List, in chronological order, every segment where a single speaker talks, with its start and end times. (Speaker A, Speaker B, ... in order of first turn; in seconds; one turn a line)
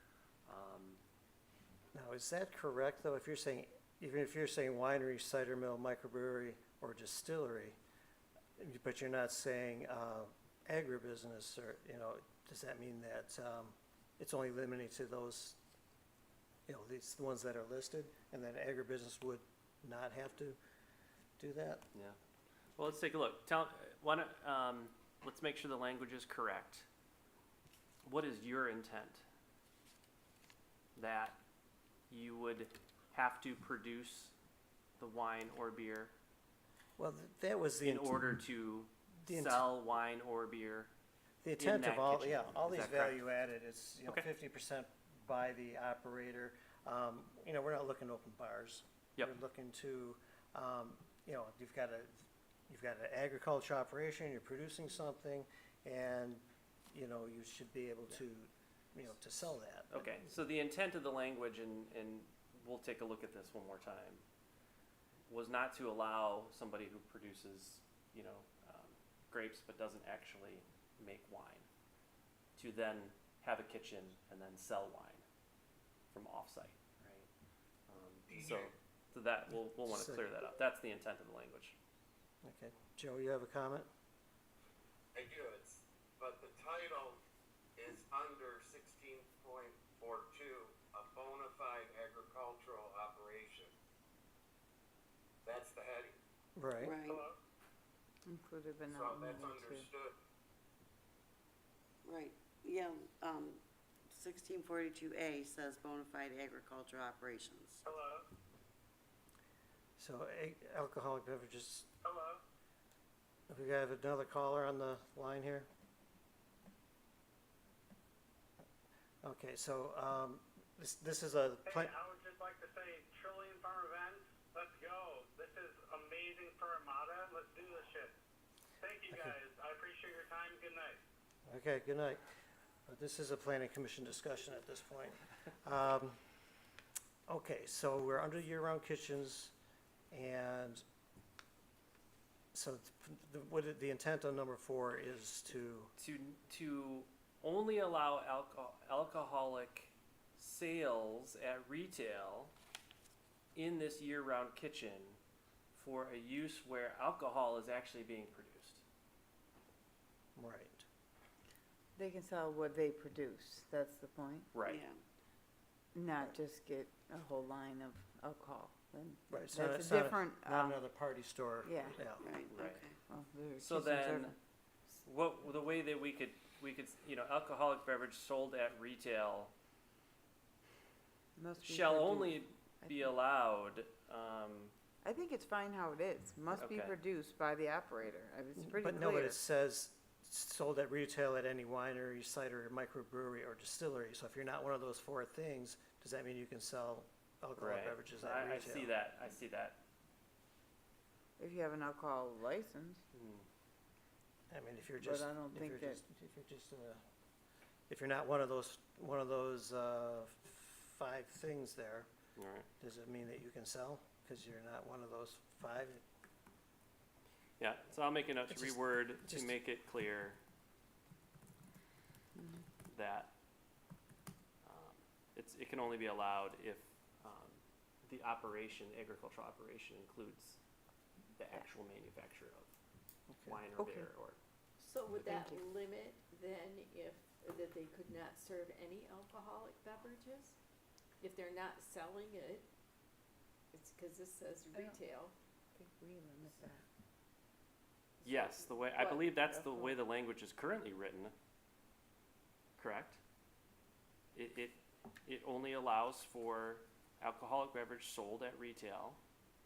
Speaker A: 0.5-1.0
Speaker B: 1.9-7.8
Speaker B: 8.6-15.6
Speaker B: 16.7-20.6
Speaker B: 21.4-21.9
Speaker A: 22.8-26.9
Speaker A: 28.1-29.2
Speaker A: 30.9-31.4
Speaker A: 32.1-34.3
Speaker A: 35.0-36.1
Speaker B: 37.0-38.2
Speaker A: 37.8-40.9
Speaker B: 39.2-39.7
Speaker B: 41.4-52.2
Speaker A: 41.6-43.2
Speaker B: 52.7-60.2
Speaker A: 59.9-64.2
Speaker A: 65.3-71.7
Speaker A: 72.6-75.2
Speaker A: 76.1-77.3
Speaker A: 77.9-81.8
Speaker C: 78.3-78.7
Speaker B: 79.8-80.2
Speaker B: 82.4-83.9
Speaker C: 85.1-87.2
Speaker C: 87.8-93.7
Speaker C: 95.4-96.2
Speaker B: 96.6-97.0
Speaker D: 96.8-97.2
Speaker E: 98.3-99.9
Speaker C: 98.9-100.2
Speaker D: 102.0-107.9
Speaker F: 107.9-108.2
Speaker B: 110.0-111.9
Speaker F: 112.0-112.4
Speaker B: 113.5-115.7
Speaker B: 119.2-121.9
Speaker F: 121.7-128.1
Speaker F: 128.8-131.0
Speaker B: 131.5-132.2
Speaker B: 132.9-136.2
Speaker B: 137.3-139.5
Speaker B: 140.1-140.8
Speaker B: 142.5-145.9
Speaker A: 146.0-152.5
Speaker A: 153.5-155.2
Speaker A: 155.7-158.8
Speaker B: 160.3-160.8
Speaker E: 161.9-164.5
Speaker A: 164.5-164.8
Speaker D: 164.6-165.0
Speaker E: 165.9-170.8
Speaker B: 169.3-172.3
Speaker E: 171.7-172.0
Speaker D: 172.1-173.0
Speaker A: 172.5-172.8
Speaker E: 173.1-174.3
Speaker A: 173.6-174.4
Speaker A: 175.0-179.5
Speaker E: 181.4-183.0
Speaker A: 181.6-184.7
Speaker E: 185.0-189.3
Speaker A: 186.5-187.0
Speaker B: 188.6-198.9
Speaker A: 197.6-199.8
Speaker E: 201.4-203.0
Speaker A: 203.1-203.4
Speaker B: 204.5-207.0
Speaker E: 205.0-206.0
Speaker B: 207.9-212.1
Speaker A: 212.3-212.7
Speaker B: 212.8-216.0
Speaker A: 217.6-220.4
Speaker B: 218.5-219.6
Speaker A: 222.8-223.3
Speaker A: 224.6-230.6
Speaker A: 231.3-232.7
Speaker B: 233.3-233.6
Speaker A: 233.4-234.4
Speaker G: 234.8-240.6
Speaker G: 241.2-242.7
Speaker G: 243.7-245.3
Speaker E: 245.8-246.6
Speaker G: 248.2-249.7
Speaker A: 248.2-251.3
Speaker A: 252.8-253.2
Speaker A: 254.3-259.2